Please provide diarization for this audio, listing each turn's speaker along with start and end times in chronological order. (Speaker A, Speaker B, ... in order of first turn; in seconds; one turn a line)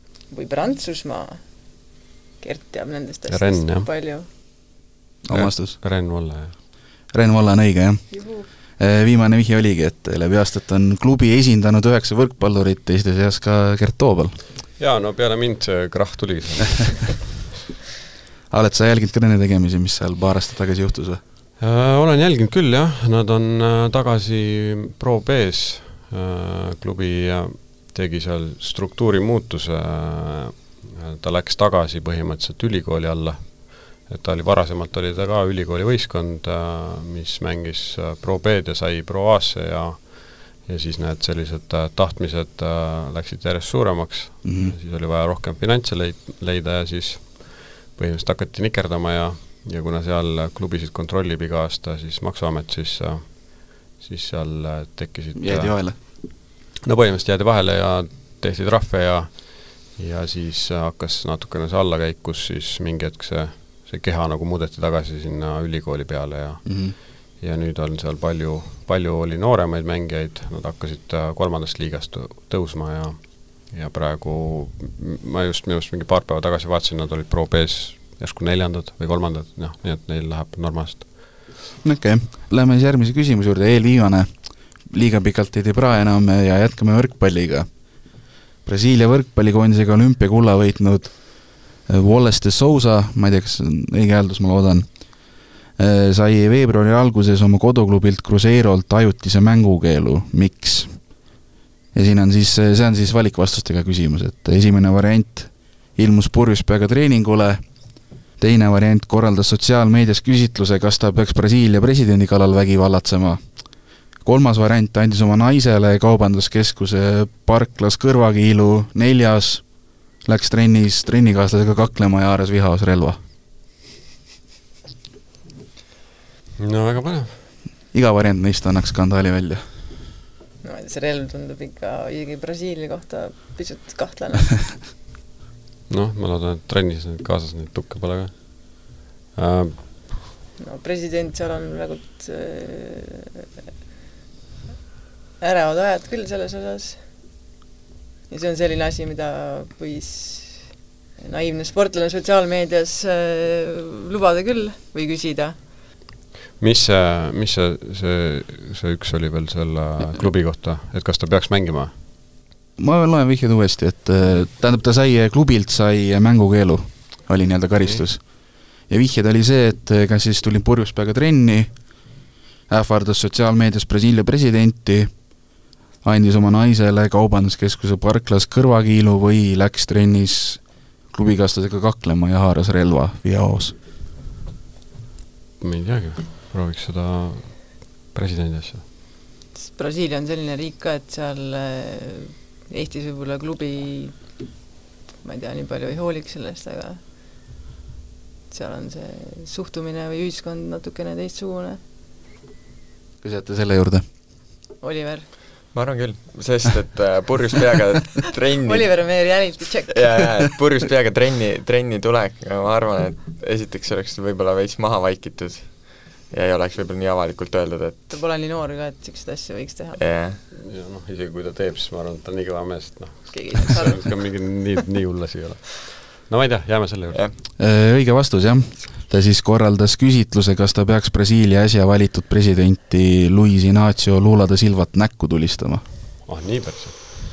Speaker A: 0.3-1.4
Speaker A: 2.4-4.3
Speaker B: 3.3-3.9
Speaker C: 5.2-5.8
Speaker B: 5.3-6.5
Speaker C: 7.1-8.2
Speaker A: 8.1-8.5
Speaker C: 8.8-14.4
Speaker B: 14.8-17.3
Speaker C: 18.5-21.2
Speaker B: 21.6-56.2
Speaker C: 44.4-44.8
Speaker C: 55.4-56.0
Speaker B: 56.8-81.4
Speaker C: 66.7-67.0
Speaker C: 81.8-87.7
Speaker C: 88.7-94.9
Speaker C: 95.8-101.0
Speaker C: 101.9-107.6
Speaker C: 108.4-113.4
Speaker C: 114.2-119.6
Speaker C: 120.2-123.2
Speaker B: 126.6-127.3
Speaker C: 127.9-129.6
Speaker A: 130.6-134.6
Speaker B: 135.9-140.1
Speaker A: 140.6-143.4
Speaker A: 145.4-147.0
Speaker A: 148.3-155.6
Speaker B: 156.6-161.9
Speaker C: 162.8-171.7
Speaker C: 172.7-175.1
Speaker C: 176.0-180.6
Speaker C: 181.1-183.8
Speaker B: 185.6-188.8
Speaker A: 189.6-194.2
Speaker A: 195.2-197.0
Speaker A: 198.5-201.8
Speaker C: 203.2-204.1
Speaker A: 204.8-205.3
Speaker D: 205.7-209.2
Speaker A: 208.6-210.1
Speaker D: 209.9-218.1
Speaker A: 218.1-220.0
Speaker D: 220.0-220.4
Speaker B: 220.5-227.3
Speaker A: 223.3-224.1
Speaker C: 227.6-235.8
Speaker B: 236.3-237.2